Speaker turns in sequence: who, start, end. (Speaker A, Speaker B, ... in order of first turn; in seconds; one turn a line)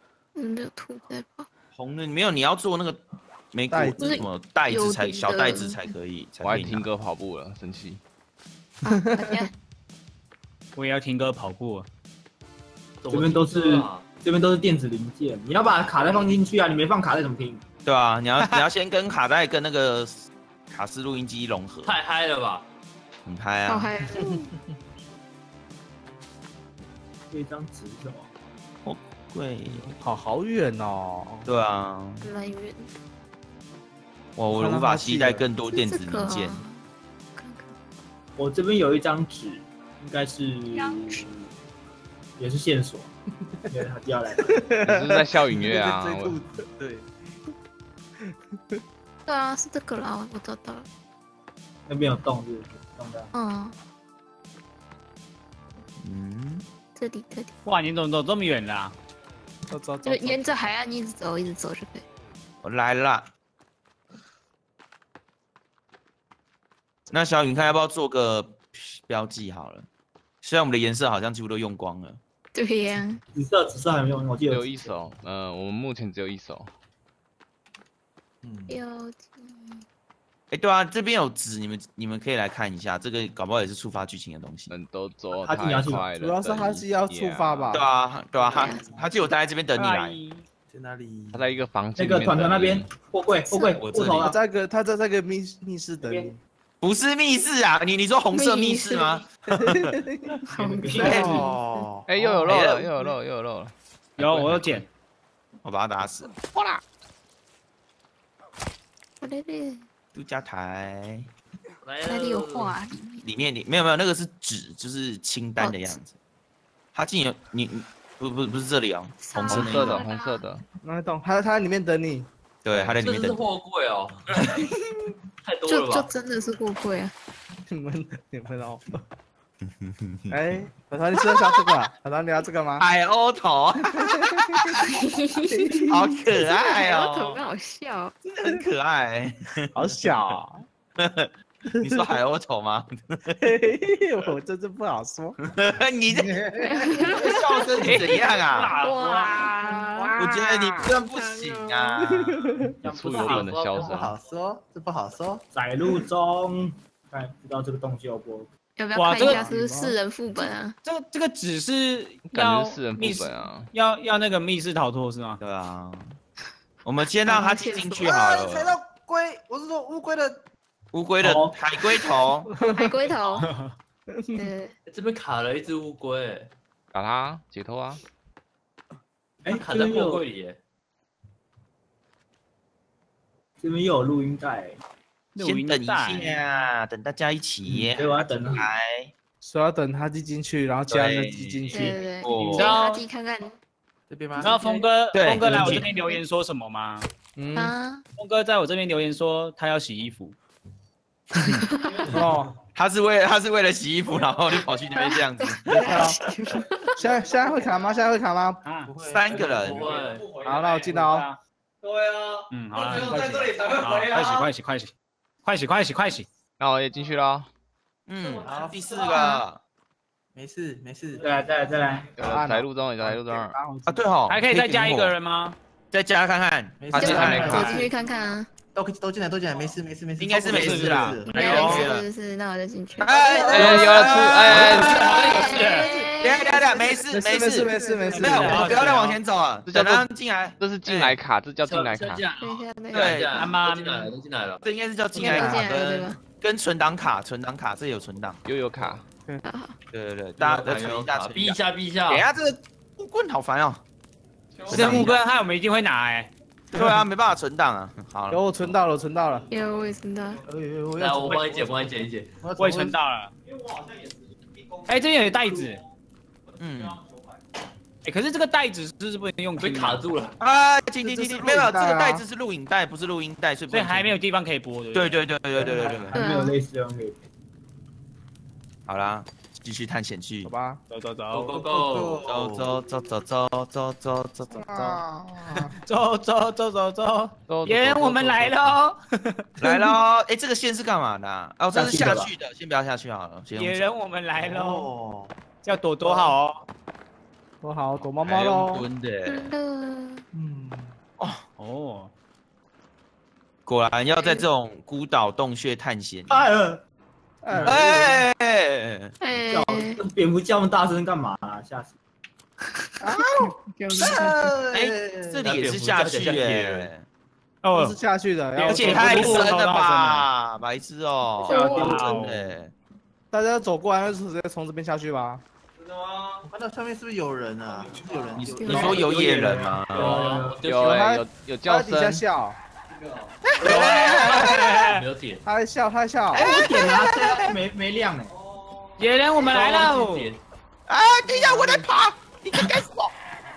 Speaker A: 0.3-1.5
Speaker B: 1.7-6.9
Speaker C: 3.7-4.1
Speaker A: 4.0-5.9
Speaker D: 6.4-8.0
Speaker A: 8.8-9.5
Speaker C: 8.9-9.4
Speaker E: 10.8-11.9
Speaker F: 13.0-14.1
Speaker G: 13.1-17.6
Speaker B: 17.8-22.0
Speaker E: 18.4-18.6
Speaker F: 21.8-22.6
Speaker B: 23.2-23.9
Speaker A: 23.7-24.5
Speaker G: 27.3-28.3
Speaker B: 28.9-29.9
Speaker C: 30.0-31.5
Speaker B: 31.4-32.3
Speaker A: 32.2-32.9
Speaker B: 34.4-36.6
Speaker C: 34.5-35.4
Speaker A: 35.7-36.8
Speaker A: 37.4-37.7
Speaker G: 38.4-41.4
Speaker A: 40.7-41.2
Speaker G: 42.4-43.1
Speaker G: 43.7-44.5
Speaker C: 44.5-45.4
Speaker D: 44.8-46.4
Speaker H: 45.6-47.1
Speaker A: 49.2-50.9
Speaker G: 51.9-53.3
Speaker A: 53.3-53.8
Speaker B: 56.0-56.6
Speaker A: 56.9-57.5
Speaker E: 57.6-58.9
Speaker C: 59.7-60.7
Speaker A: 60.0-62.0
Speaker B: 62.6-63.3
Speaker B: 67.1-69.9
Speaker B: 70.4-72.2
Speaker A: 72.5-73.2
Speaker G: 73.3-74.9
Speaker D: 74.5-76.7
Speaker H: 78.4-78.8
Speaker A: 78.7-79.8
Speaker B: 80.5-84.8
Speaker D: 84.7-87.8
Speaker G: 85.3-86.1
Speaker C: 86.1-87.9
Speaker B: 87.7-90.2
Speaker H: 88.5-89.0
Speaker A: 88.5-88.8
Speaker E: 89.8-90.5
Speaker H: 90.7-91.5
Speaker D: 91.3-92.9
Speaker G: 92.0-94.4
Speaker A: 93.5-93.8
Speaker B: 93.8-94.3
Speaker C: 94.2-96.4
Speaker G: 96.1-96.3
Speaker B: 96.8-99.9
Speaker A: 98.3-99.2
Speaker C: 99.5-100.4
Speaker A: 100.5-101.9
Speaker G: 100.5-101.5
Speaker E: 100.9-101.2
Speaker B: 101.0-101.3
Speaker C: 101.0-101.5
Speaker H: 101.3-102.4
Speaker D: 102.1-103.7
Speaker B: 102.4-103.2
Speaker E: 104.2-104.9
Speaker B: 104.2-104.8
Speaker B: 105.6-106.4
Speaker A: 109.2-109.8
Speaker B: 110.1-111.3
Speaker F: 111.8-112.8
Speaker A: 112.1-113.2
Speaker B: 113.2-116.2
Speaker A: 115.6-116.0
Speaker B: 116.9-120.0
Speaker A: 119.2-120.4
Speaker D: 119.5-120.6
Speaker C: 120.8-122.3
Speaker B: 122.6-123.4
Speaker D: 122.7-123.0
Speaker F: 123.0-124.2
Speaker B: 124.4-124.8
Speaker F: 125.4-126.1
Speaker A: 125.7-127.1
Speaker C: 127.7-129.0
Speaker B: 129.8-130.4
Speaker C: 130.3-132.9
Speaker B: 132.8-134.8
Speaker C: 133.9-134.6
Speaker A: 134.9-135.6
Speaker C: 135.5-136.2
Speaker B: 135.9-137.4
Speaker A: 136.6-138.1
Speaker B: 138.2-140.4
Speaker C: 139.8-140.6
Speaker B: 141.0-141.3
Speaker C: 141.7-142.1
Speaker B: 141.8-143.5
Speaker C: 143.4-145.4
Speaker B: 145.4-146.4
Speaker C: 146.1-146.9
Speaker A: 146.6-148.1
Speaker H: 146.8-147.9
Speaker B: 147.3-148.8
Speaker E: 147.8-149.6
Speaker A: 148.8-152.0
Speaker B: 150.2-152.4
Speaker C: 152.0-152.7
Speaker G: 152.8-153.5
Speaker D: 152.9-154.2
Speaker F: 152.9-154.0
Speaker H: 153.8-155.4
Speaker G: 155.5-158.5
Speaker A: 158.8-160.8
Speaker E: 158.9-159.5
Speaker C: 159.1-160.0
Speaker E: 160.4-165.4
Speaker D: 162.2-163.7
Speaker B: 165.4-166.2
Speaker B: 166.8-168.8
Speaker A: 167.2-168.4
Speaker H: 168.0-170.4
Speaker B: 170.9-172.5
Speaker G: 171.2-171.6
Speaker C: 172.5-172.9
Speaker A: 172.7-173.5
Speaker E: 173.4-173.7
Speaker C: 174.2-174.5
Speaker A: 174.3-174.8
Speaker F: 174.9-176.5
Speaker D: 176.9-178.0
Speaker G: 179.4-180.2
Speaker F: 179.5-180.6
Speaker G: 183.6-184.8
Speaker E: 185.3-186.3
Speaker B: 185.4-189.1
Speaker G: 187.8-188.7
Speaker C: 189.4-192.1
Speaker B: 190.9-192.7
Speaker A: 191.7-193.6
Speaker E: 192.6-193.0
Speaker H: 194.1-194.7
Speaker E: 194.4-197.1
Speaker F: 194.4-194.8
Speaker B: 195.1-195.9
Speaker C: 197.4-197.8
Speaker A: 197.6-198.1
Speaker E: 198.2-200.3
Speaker A: 201.5-201.9
Speaker C: 202.1-202.5
Speaker B: 202.7-206.0
Speaker A: 204.9-206.9
Speaker C: 205.7-206.2
Speaker C: 207.0-208.6
Speaker E: 208.6-208.9
Speaker H: 208.9-209.9
Speaker B: 209.0-209.9
Speaker F: 209.4-210.3
Speaker C: 210.4-211.3
Speaker E: 210.8-211.4
Speaker E: 212.5-214.9
Speaker E: 215.4-216.2
Speaker D: 216.6-217.5
Speaker B: 218.1-219.6
Speaker H: 218.5-218.9
Speaker A: 218.9-219.4
Speaker H: 220.3-221.2
Speaker G: 221.2-222.1
Speaker D: 222.2-223.6
Speaker C: 222.2-224.0
Speaker B: 223.9-225.2
Speaker E: 224.3-225.6
Speaker B: 225.9-227.4
Speaker H: 226.8-227.9
Speaker D: 226.9-227.8
Speaker A: 227.0-228.5
Speaker E: 227.5-227.8
Speaker H: 228.8-231.9
Speaker B: 230.2-232.1
Speaker E: 230.5-231.5
Speaker A: 231.3-233.8
Speaker B: 233.0-235.6
Speaker H: 233.1-234.7
Speaker D: 233.5-235.0
Speaker E: 234.8-235.9
Speaker A: 235.0-236.9
Speaker H: 235.3-239.0
Speaker B: 236.2-241.2
Speaker C: 237.1-238.8
Speaker E: 238.1-239.2
Speaker D: 239.7-242.2
Speaker F: 241.6-244.6
Speaker A: 242.4-243.2
Speaker B: 242.9-243.5
Speaker E: 243.3-244.1
Speaker B: 244.6-248.4
Speaker A: 245.1-246.2
Speaker C: 245.2-245.7
Speaker D: 248.4-249.0
Speaker A: 249.4-249.8
Speaker B: 249.9-253.8
Speaker F: 250.4-252.3
Speaker B: 254.6-255.2
Speaker E: 254.7-256.3
Speaker B: 256.7-258.8
Speaker C: 258.3-259.5
Speaker A: 259.5-260.4
Speaker H: 260.5-263.0
Speaker F: 261.0-262.3
Speaker E: 262.6-263.3
Speaker E: 264.9-265.8
Speaker B: 266.6-267.0
Speaker E: 268.0-270.1
Speaker F: 269.6-270.4
Speaker B: 270.4-274.1
Speaker C: 271.1-272.2
Speaker E: 273.7-275.2
Speaker B: 274.9-276.1
Speaker G: 275.6-277.2
Speaker A: 276.1-276.6
Speaker B: 278.9-280.6
Speaker C: 280.4-280.8
Speaker E: 280.9-281.5
Speaker F: 281.3-282.2
Speaker H: 281.5-282.9
Speaker B: 282.2-285.0
Speaker C: 284.5-285.8
Speaker E: 285.6-289.4
Speaker D: 287.5-288.7
Speaker B: 289.6-293.9
Speaker G: 291.7-292.3
Speaker E: 293.5-294.9
Speaker H: 294.4-295.4
Speaker E: 295.6-296.6
Speaker C: 296.1-296.3
Speaker C: 297.6-298.9
Speaker B: 298.2-299.5
Speaker A: 299.2-300.2
Speaker H: 300.3-301.0
Speaker E: 301.6-302.1
Speaker B: 303.6-306.4
Speaker A: 304.1-304.4
Speaker G: 306.3-306.8
Speaker C: 307.4-308.2
Speaker B: 307.7-309.2
Speaker A: 309.2-310.0
Speaker G: 309.5-311.9
Speaker A: 312.8-314.4
Speaker H: 314.0-315.4
Speaker B: 314.0-317.1
Speaker F: 315.4-316.9
Speaker E: 317.6-318.0
Speaker C: 317.7-319.4
Speaker E: 318.6-320.3
Speaker B: 318.7-322.7
Speaker G: 321.5-322.1
Speaker A: 321.5-322.0
Speaker E: 321.7-322.6
Speaker C: 323.3-325.4
Speaker H: 326.4-329.2
Speaker B: 328.4-330.2
Speaker A: 328.6-328.9
Speaker G: 328.6-330.6
Speaker F: 329.0-331.2
Speaker D: 330.6-332.2
Speaker C: 330.9-332.6
Speaker B: 333.4-334.9
Speaker G: 333.6-334.2
Speaker E: 333.7-335.0
Speaker F: 334.1-335.4
Speaker C: 335.4-336.5
Speaker B: 336.3-337.6
Speaker G: 336.5-338.3
Speaker E: 339.0-340.3
Speaker F: 339.4-340.4
Speaker B: 340.9-343.1